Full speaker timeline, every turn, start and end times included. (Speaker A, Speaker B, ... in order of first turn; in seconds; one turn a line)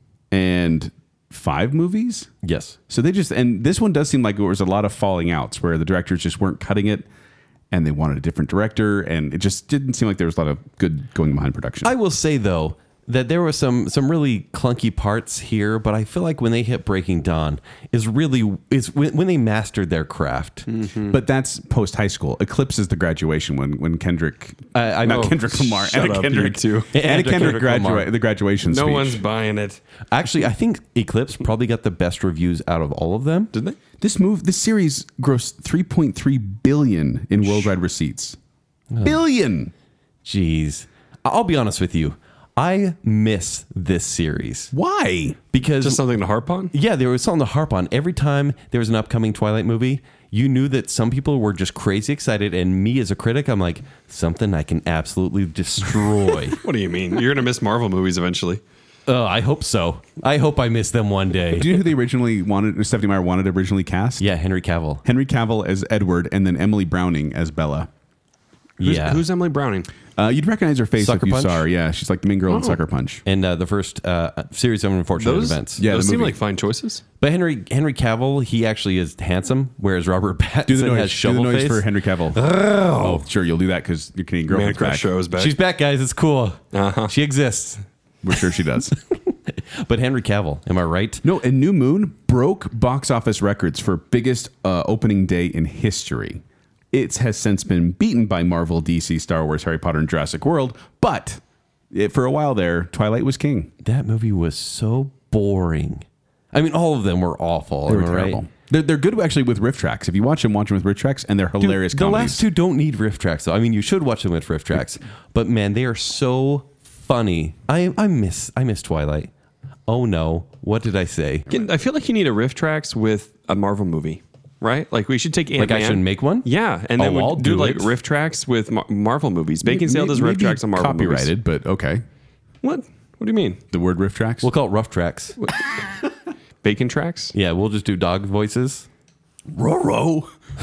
Speaker A: 0.3-2.3
Speaker B: 2.4-2.8
Speaker A: 2.9-7.0
Speaker A: 7.7-11.9
Speaker B: 11.8-20.7
Speaker C: 20.7-21.1
Speaker A: 21.1-29.2
Speaker B: 24.7-25.4
Speaker C: 25.1-26.9
Speaker B: 26.9-28.1
Speaker C: 28.7-29.8
Speaker B: 30.1-33.5
Speaker A: 34.0-38.4
Speaker B: 38.9-39.2
Speaker A: 39.0-39.7
Speaker B: 40.2-44.7
Speaker A: 44.7-45.4
Speaker B: 45.5-46.0
Speaker C: 45.8-46.7
Speaker B: 46.7-56.6
Speaker C: 56.5-58.6
Speaker B: 59.1-61.8
Speaker A: 61.5-64.2
Speaker B: 64.2-65.0
Speaker A: 65.0-67.9
Speaker B: 68.8-69.2
Speaker C: 68.8-69.9
Speaker A: 70.2-73.2
Speaker B: 71.0-71.6
Speaker C: 72.5-72.8
Speaker B: 73.2-75.8
Speaker C: 75.2-77.0
Speaker A: 75.8-76.4
Speaker B: 77.2-83.2
Speaker A: 80.7-85.1
Speaker C: 84.5-85.5
Speaker B: 85.3-87.8
Speaker C: 86.7-87.1
Speaker A: 88.2-88.9
Speaker B: 89.1-91.2
Speaker A: 91.2-101.4
Speaker A: 101.9-103.7
Speaker B: 103.8-108.4
Speaker A: 107.8-112.4
Speaker B: 111.6-119.3
Speaker B: 119.9-121.5
Speaker C: 121.5-131.3
Speaker B: 125.6-127.9
Speaker A: 129.6-132.0
Speaker C: 132.6-133.6
Speaker A: 133.7-134.5
Speaker B: 134.4-135.3
Speaker C: 136.6-137.3
Speaker B: 137.3-138.9
Speaker A: 139.5-140.3